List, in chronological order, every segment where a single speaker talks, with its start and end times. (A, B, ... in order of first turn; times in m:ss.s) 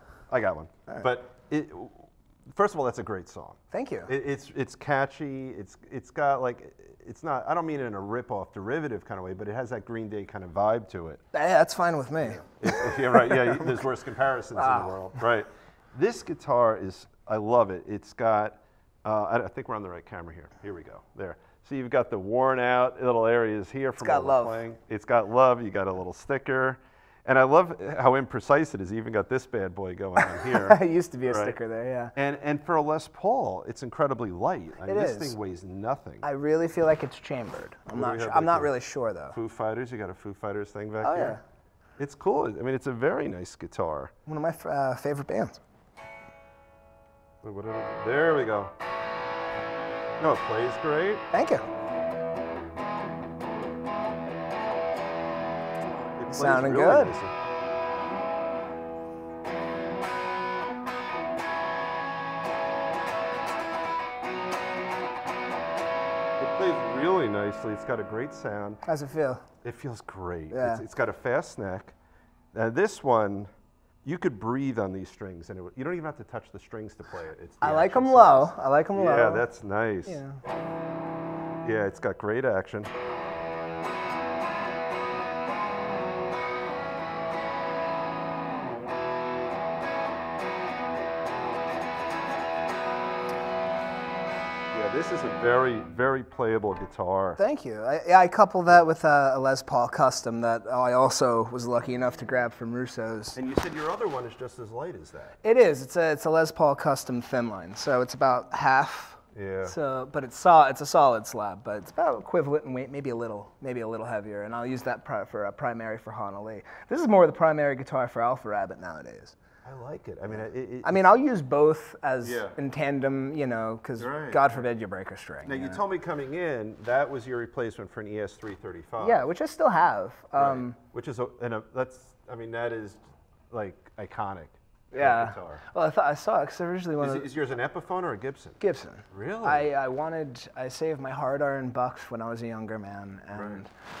0:00.3-0:11.2 A
0:03.7-0:04.1 B
0:11.3-0:13.8 B
0:12.2-0:31.6 A
0:14.5-0:15.2 B
0:24.0-0:24.6 B
0:30.2-0:32.1 B
0:32.2-0:36.2 A
0:34.8-0:35.4 B
0:36.2-0:39.4 B
0:37.9-0:38.7 A
0:39.3-0:41.4 A
0:41.0-0:41.4 B
0:42.0-0:44.1 A
0:44.2-0:45.6 B
0:47.4-0:48.7 A
0:50.2-0:51.2 A
0:51.3-0:51.6 B
0:56.2-0:57.3 A
0:56.3-0:57.1 B
1:06.4-1:08.8 A
1:08.8-1:09.4 B
1:09.6-1:11.9 A
1:10.5-1:10.8 B
1:12.5-1:13.5 A
1:14.0-1:20.2 A
1:17.6-1:19.4 B
1:20.0-1:20.4 B
1:21.6-1:22.9 A
1:34.7-1:37.4 A
1:37.4-1:43.4 B
1:43.4-1:45.4 A
1:45.4-1:59.3 B
1:49.3-1:49.7 A
1:59.6-2:01.0 A
2:00.8-2:05.8 B
2:02.2-2:02.5 A
2:04.0-2:04.6 A
2:05.4-2:09.2 A
2:09.0-2:10.8 B
2:10.3-2:15.6 A
2:14.9-2:17.3 B
2:17.0-2:18.6 A
2:18.6-2:23.7 B
2:19.1-2:19.7 A
2:23.3-2:23.6 A